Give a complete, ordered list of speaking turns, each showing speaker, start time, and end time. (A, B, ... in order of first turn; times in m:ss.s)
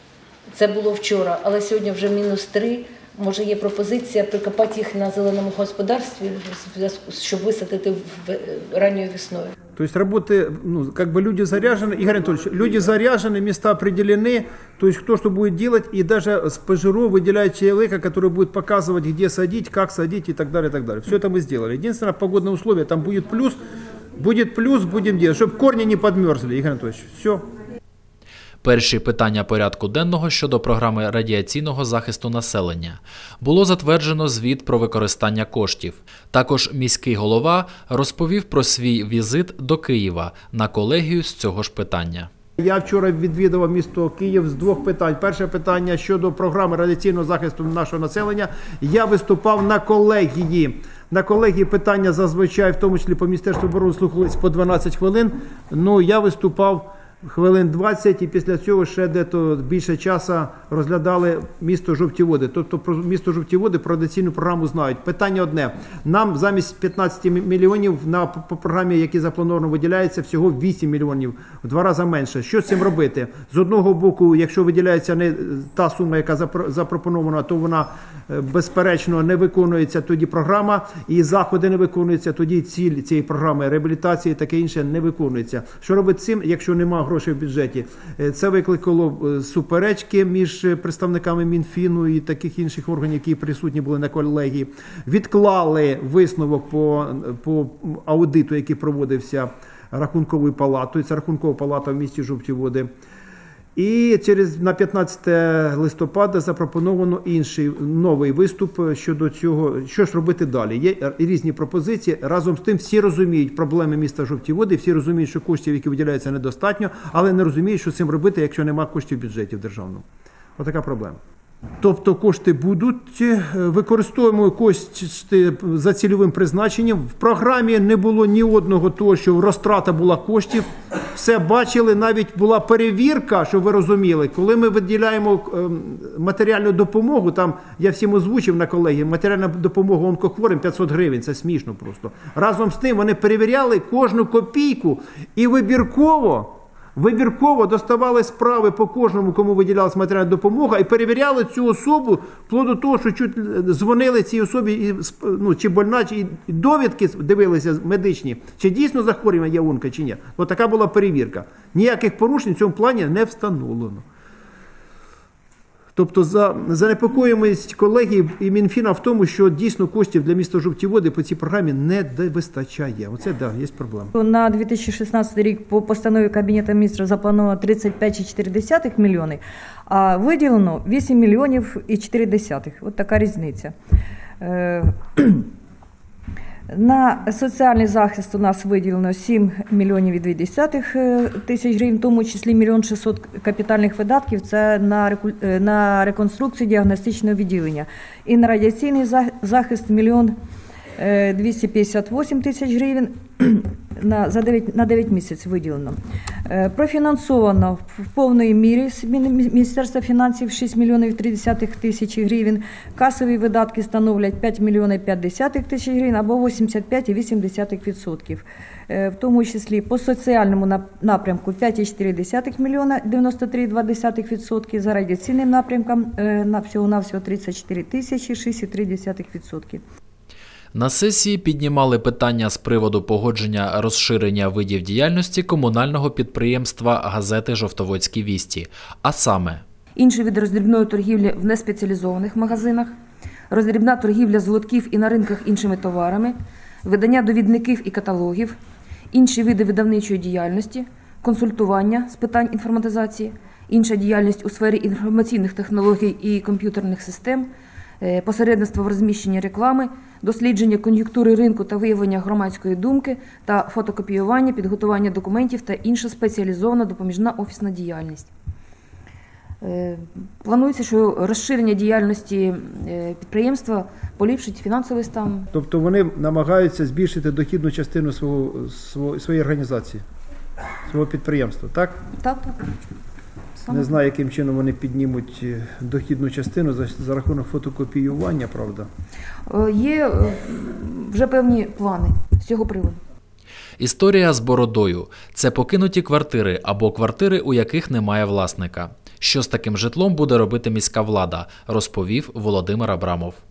0:00.5-0:09.5 A
0:09.8-0:23.6 B
0:24.2-0:27.4 B
0:28.6-0:42.3 C
0:42.6-1:42.9 B
1:43.8-2:00.0 B
2:00.6-2:01.2 B
2:01.8-2:44.0 B
2:46.0-2:54.1 B
2:54.2-3:03.7 D
3:04.4-3:05.4 D
3:06.7-3:20.3 D
3:21.0-3:26.0 D
3:26.5-3:49.8 D
3:50.7-3:59.6 C
4:00.0-4:03.0 E
4:03.5-4:08.6 E
4:09.1-4:28.3 E
4:29.6-4:35.5 E
4:35.5-4:40.0 B
4:40.9-4:42.0 B
4:42.2-4:42.6 E
4:43.6-4:43.9 E
4:43.7-4:48.9 B
4:49.5-4:53.0 E
4:53.8-5:03.4 C